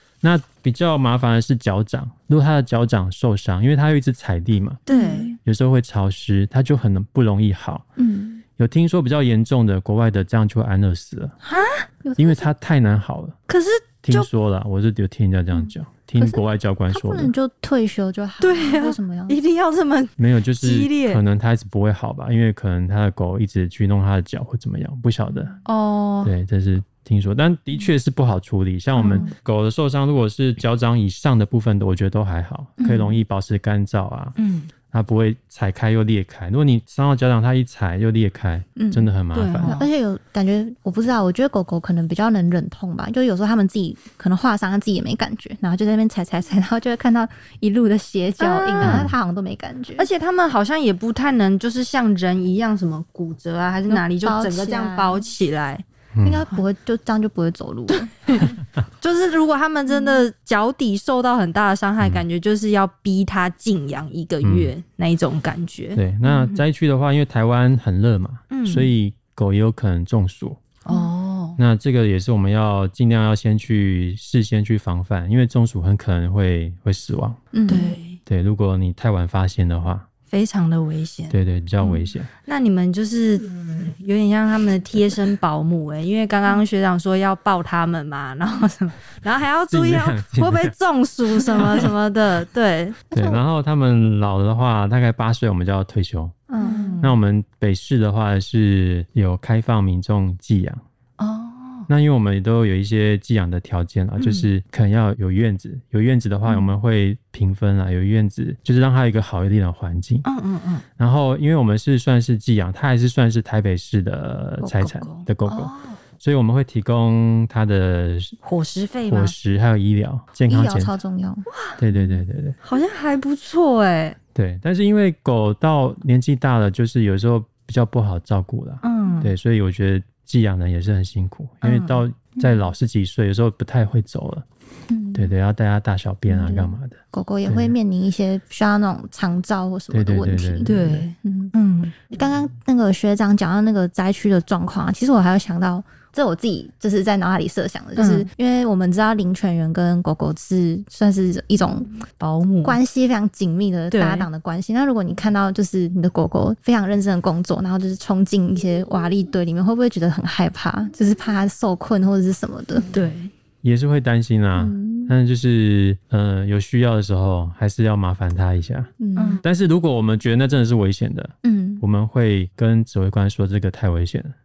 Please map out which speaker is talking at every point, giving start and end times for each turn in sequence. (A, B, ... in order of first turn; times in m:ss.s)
0:00.2-0:04.8 A
0:04.9-0:05.4 B
0:04.9-0:05.4 C
0:05.4-0:07.9 A
0:08.0-0:08.4 C
0:08.6-0:11.4 A
0:11.4-0:12.5 C
0:11.5-0:11.8 B
0:12.2-0:13.4 A
0:13.5-0:14.3 B
0:14.0-0:17.3 A
0:16.2-0:19.4 C
0:18.4-0:21.2 B
0:20.2-0:25.6 A
0:25.6-0:26.3 B
0:26.2-0:34.4 A
0:29.0-0:29.3 C
0:29.0-0:29.3 B
0:34.4-0:34.7 B
0:34.9-0:39.8 A
0:38.8-0:39.1 C
0:39.3-0:39.9 B
0:39.8-0:50.1 C
0:48.4-0:49.1 B
0:48.8-0:49.2 A
0:50.0-0:55.8 B
0:53.9-0:55.2 C
0:56.1-0:56.5 A
0:56.2-0:58.2 C
0:57.9-1:06.6 B
0:59.9-1:00.2 C
1:02.0-1:02.2 A
1:04.4-1:04.7 A
1:06.0-1:10.6 A
1:08.5-1:08.9 B
1:10.8-1:11.6 B
1:11.6-1:17.5 A
1:17.5-1:18.0 C
1:17.7-1:18.2 B
1:18.3-1:20.1 A
1:20.3-1:33.0 B
1:21.3-1:22.3 A
1:29.7-1:30.7 A
1:31.3-1:31.9 A
1:33.1-1:33.4 C
1:33.1-1:36.5 A
1:36.5-1:37.0 C
1:36.6-1:37.2 B
1:37.0-1:40.8 A
1:41.2-1:41.9 B
1:41.9-1:50.3 A
1:44.2-1:44.5 B
1:50.2-1:50.8 B
1:51.0-1:58.4 A
1:54.8-1:56.0 B
1:58.4-1:59.4 B
1:59.1-2:01.0 A
2:00.5-2:01.4 C
2:01.5-2:01.8 B
2:01.8-2:02.6 A
2:02.6-2:04.2 B
2:04.4-2:14.4 A
2:08.8-2:09.3 B
2:11.6-2:12.0 B
2:14.9-2:15.3 C
2:15.2-2:17.8 A
2:16.3-2:21.5 C
2:19.9-2:21.0 A
2:20.6-2:21.9 B
2:22.2-2:31.9 C
2:28.0-2:28.3 B
2:32.2-2:32.8 B
2:32.6-2:42.9 C
2:33.9-2:34.3 B
2:42.9-2:43.3 B
2:43.6-2:54.3 A
2:44.6-2:45.1 C
2:49.0-2:49.4 C
2:49.2-2:49.4 B
2:51.4-2:51.8 C